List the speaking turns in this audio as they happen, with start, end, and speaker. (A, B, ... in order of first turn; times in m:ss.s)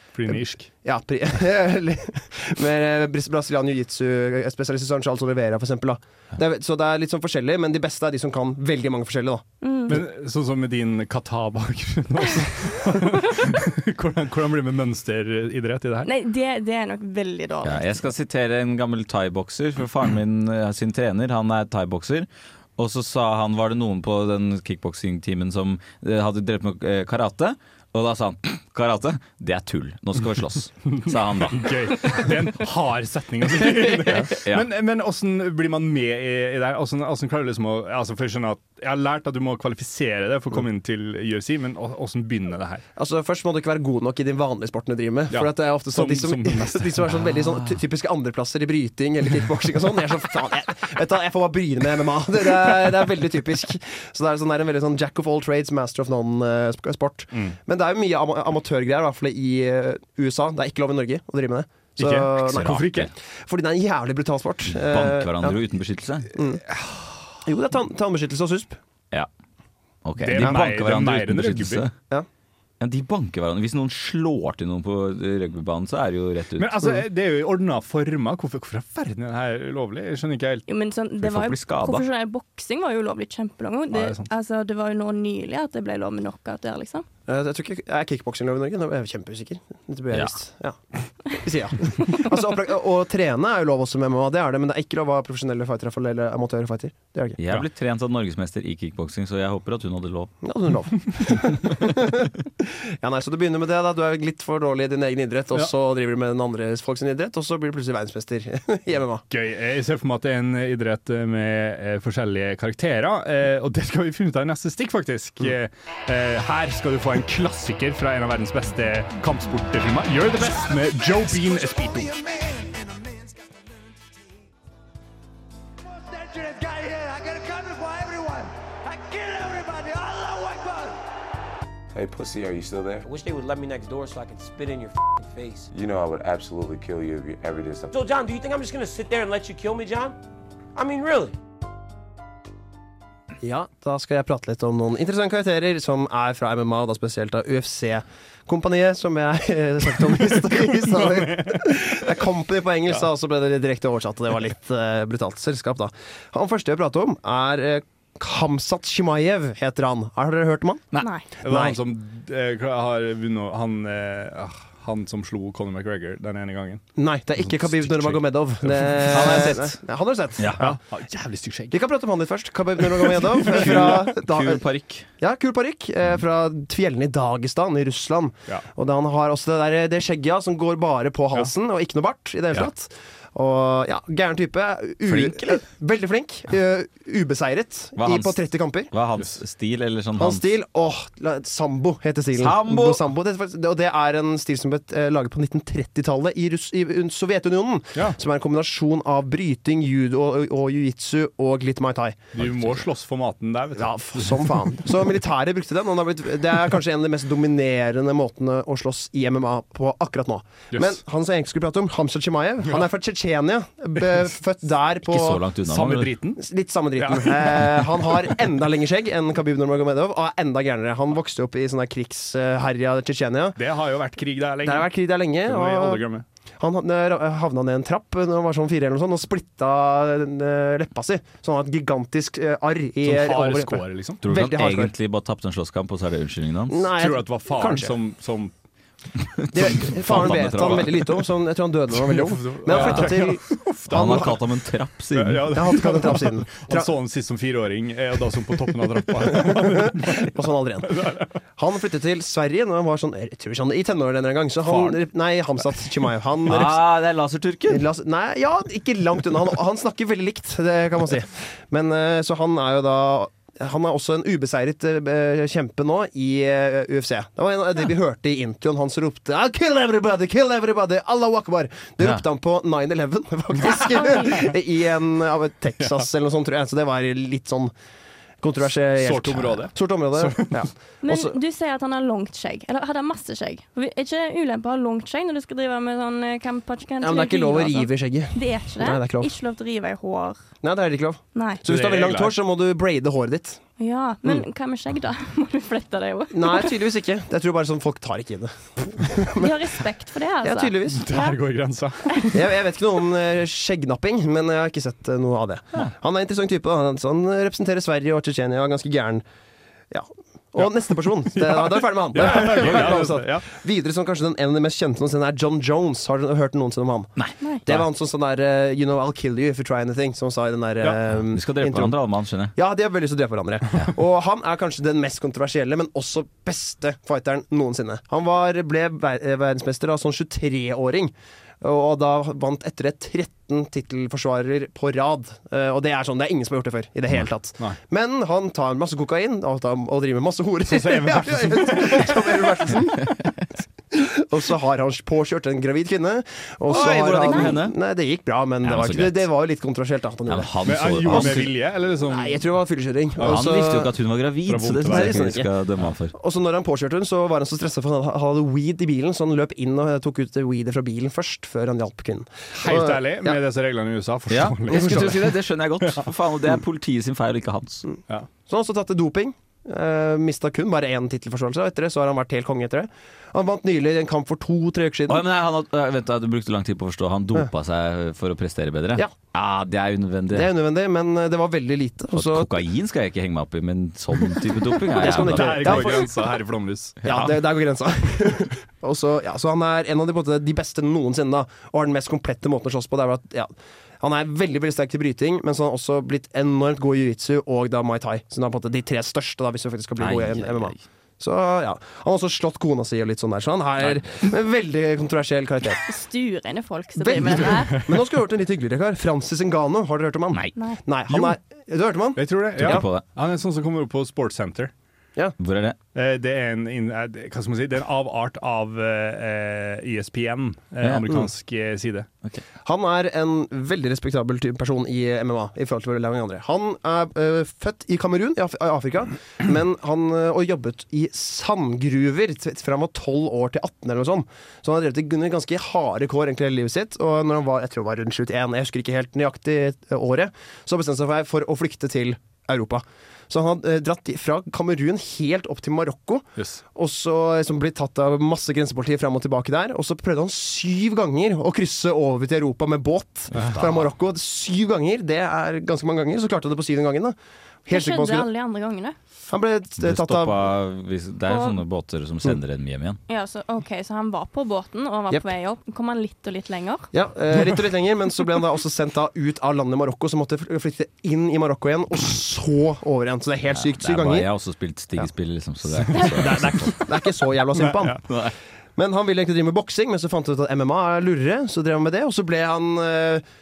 0:00.2-0:00.7 A
0:00.3-0:09.4 B
0:09.6-0:10.0 C
0:09.9-0:16.1 A
0:16.0-0:18.1 C
0:17.6-0:31.7 D
0:30.9-0:42.8 A
0:33.6-0:34.7 D
0:43.0-1:05.6 B
0:45.3-0:47.1 A
0:47.2-0:47.8 D
1:02.0-1:03.1 A
1:02.5-1:03.1 D
1:04.7-1:06.3 D
1:06.3-1:06.6 B
1:06.8-1:07.1 A
1:07.4-1:08.8 B
1:10.0-1:11.9 D
1:10.2-1:11.9 A
1:12.8-1:16.8 D
1:16.6-1:20.6 A
1:20.7-1:27.1 C
1:21.2-1:22.1 D
1:23.9-1:24.3 A
1:27.3-1:30.8 B
1:31.3-1:37.4 B
1:37.4-1:40.3 D
1:40.4-1:49.2 B
1:49.3-2:02.2 A
2:01.5-2:03.6 E
2:05.9-2:11.0 E
2:12.0-2:13.1 F
2:13.0-2:15.7 E
2:15.7-2:17.9 F
2:17.9-2:20.2 E
2:20.8-2:21.4 E
2:23.4-2:41.8 B
2:30.8-2:31.9 A
2:41.0-2:41.3 C
2:41.4-2:46.8 A
2:47.0-2:50.8 B
2:47.4-2:49.6 A
2:49.1-2:49.7 D
2:50.4-2:50.7 D
2:50.5-2:51.8 A
2:51.7-2:54.6 B
2:53.0-2:53.9 A
2:53.4-2:55.1 D
2:55.2-3:08.9 B
3:05.1-3:05.6 D
3:08.0-3:10.5 D
3:10.2-3:22.3 B
3:12.3-3:13.0 D
3:22.4-3:24.6 A
3:22.4-3:22.7 D
3:23.8-3:35.4 B
3:35.1-3:36.2 D
3:35.7-3:36.4 A
3:36.4-3:43.6 B
3:37.0-3:38.2 A
3:43.6-3:44.9 A
3:44.6-3:46.0 B
3:45.4-3:46.2 A
3:46.6-3:54.9 B
3:53.0-3:54.2 A
3:54.2-3:56.9 D
3:56.7-3:58.0 B
3:57.0-3:58.5 A
3:59.2-4:01.1 D
3:59.5-4:03.5 B
4:02.0-4:04.4 A
4:02.7-4:03.1 D
4:03.9-4:05.5 D
4:05.1-4:10.3 A
4:05.5-4:06.9 B
4:09.2-4:16.8 B
4:10.9-4:11.3 A
4:14.6-4:15.0 A
4:16.5-4:17.8 D
4:17.7-4:37.7 B
4:33.8-4:34.4 C
4:38.4-4:41.4 B
4:39.0-4:40.7 A
4:41.0-4:50.4 C
4:47.0-4:49.3 B
4:50.6-4:53.6 B
4:51.4-4:51.6 C
4:51.6-4:52.3 A
4:53.8-4:56.8 C
4:56.3-4:59.7 B
4:59.4-5:01.4 C
5:00.4-5:01.1 B
5:00.9-5:02.4 A
5:02.1-5:02.4 C
5:02.3-5:09.2 B
5:09.9-5:22.0 B
5:10.6-5:13.5 A
5:17.2-5:17.8 D
5:21.3-5:22.5 D
5:22.6-5:43.3 B
5:40.7-5:42.5 A
5:43.9-5:51.5 B
5:46.7-5:47.8 D
5:48.6-5:49.3 D
5:50.3-5:51.5 D
5:50.6-5:52.4 A
5:52.0-5:53.9 B
5:53.2-5:53.5 A
5:53.2-5:56.2 D
5:54.5-5:55.3 A
5:54.9-5:55.5 B
5:56.1-6:03.4 B
6:02.6-6:06.1 A
6:04.3-6:07.9 D
6:04.7-6:05.2 B
6:07.9-6:15.2 B
6:15.1-6:20.5 D
6:20.3-6:22.6 B
6:22.1-6:26.0 D
6:24.9-6:26.1 B
6:24.9-6:27.0 A
6:27.0-6:27.3 D
6:27.0-6:45.8 B
6:40.0-6:40.8 D
6:43.8-6:44.2 D
6:45.9-6:47.8 C
6:47.0-6:52.9 B
6:52.2-6:54.7 A
6:52.6-6:53.0 D
6:55.4-6:55.8 D
6:56.0-7:02.1 A
7:00.8-7:01.1 D
7:02.6-7:38.3 B
7:33.4-7:33.9 D
7:37.7-7:39.0 C
7:39.3-7:40.5 B
7:39.8-7:43.0 D
7:41.3-7:41.6 C
7:43.1-7:46.9 C
7:46.9-7:54.3 B
7:53.5-7:56.8 D
7:55.9-7:58.0 B
7:56.2-7:56.7 A
7:57.6-7:58.0 A
7:58.1-7:58.3 D
7:58.8-8:03.2 B